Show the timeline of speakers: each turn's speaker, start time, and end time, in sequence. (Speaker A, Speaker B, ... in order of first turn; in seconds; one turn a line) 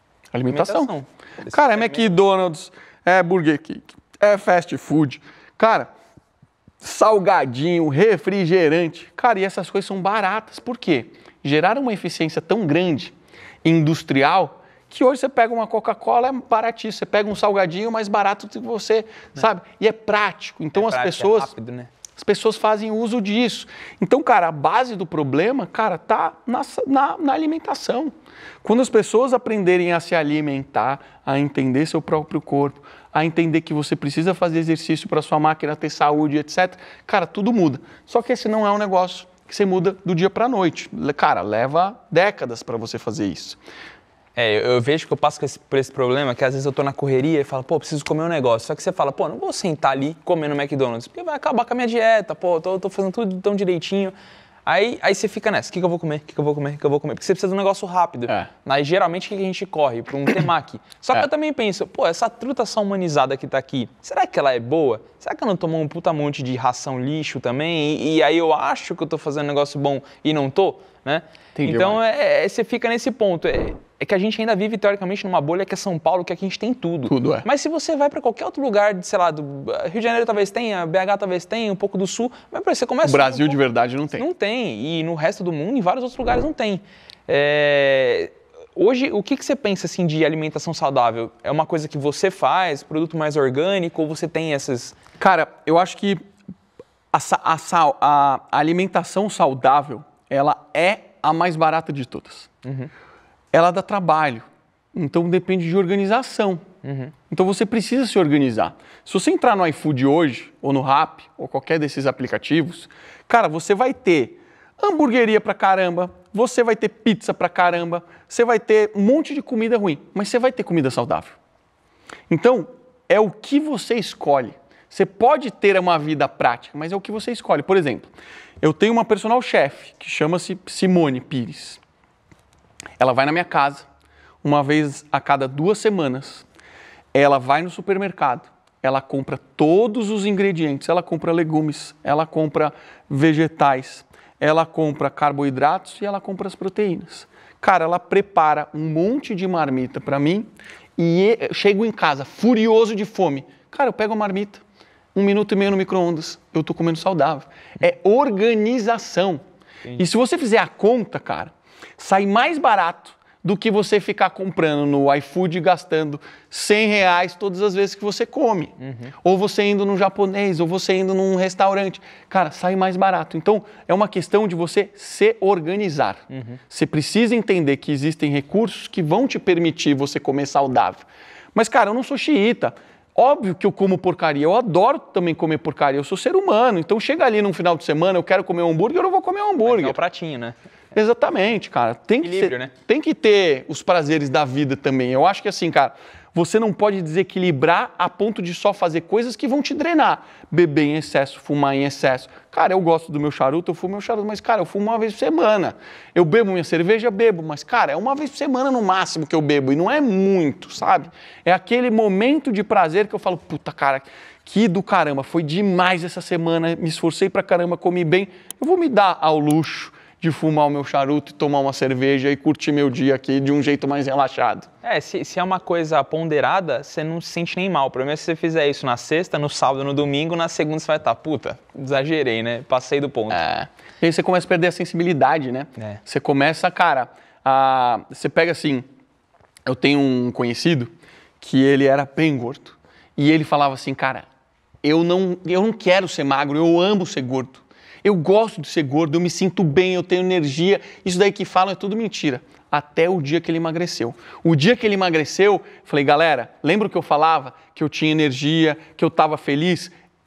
Speaker A: 0.3-0.9
Speaker B: 0.5-2.2
Speaker A: 1.5-5.9
Speaker A: 6.8-21.5
Speaker B: 20.7-21.9
Speaker A: 22.1-28.1
Speaker A: 28.6-43.6
Speaker B: 44.4-54.1
Speaker B: 54.6-83.6
Speaker A: 71.5-72.0
Speaker A: 77.1-77.5
Speaker A: 83.0-84.3
Speaker B: 84.2-95.0
Speaker A: 95.2-96.2
Speaker A: 97.1-102.5
Speaker B: 102.6-102.9
Speaker A: 103.5-106.6
Speaker B: 106.8-107.1
Speaker A: 107.3-121.4
Speaker A: 122.3-128.1
Speaker A: 128.6-131.8
Speaker A: 133.0-133.9
Speaker A: 134.4-136.5
Speaker A: 137.1-154.6
Speaker A: 155.1-159.4
Speaker A: 160.0-190.0
Speaker B: 168.8-169.1
Speaker B: 176.3-176.6
Speaker B: 189.6-190.5
Speaker A: 190.9-224.7
Speaker B: 192.2-192.7
Speaker B: 224.8-233.4
Speaker A: 233.3-238.9
Speaker A: 239.7-244.2
Speaker A: 244.8-259.9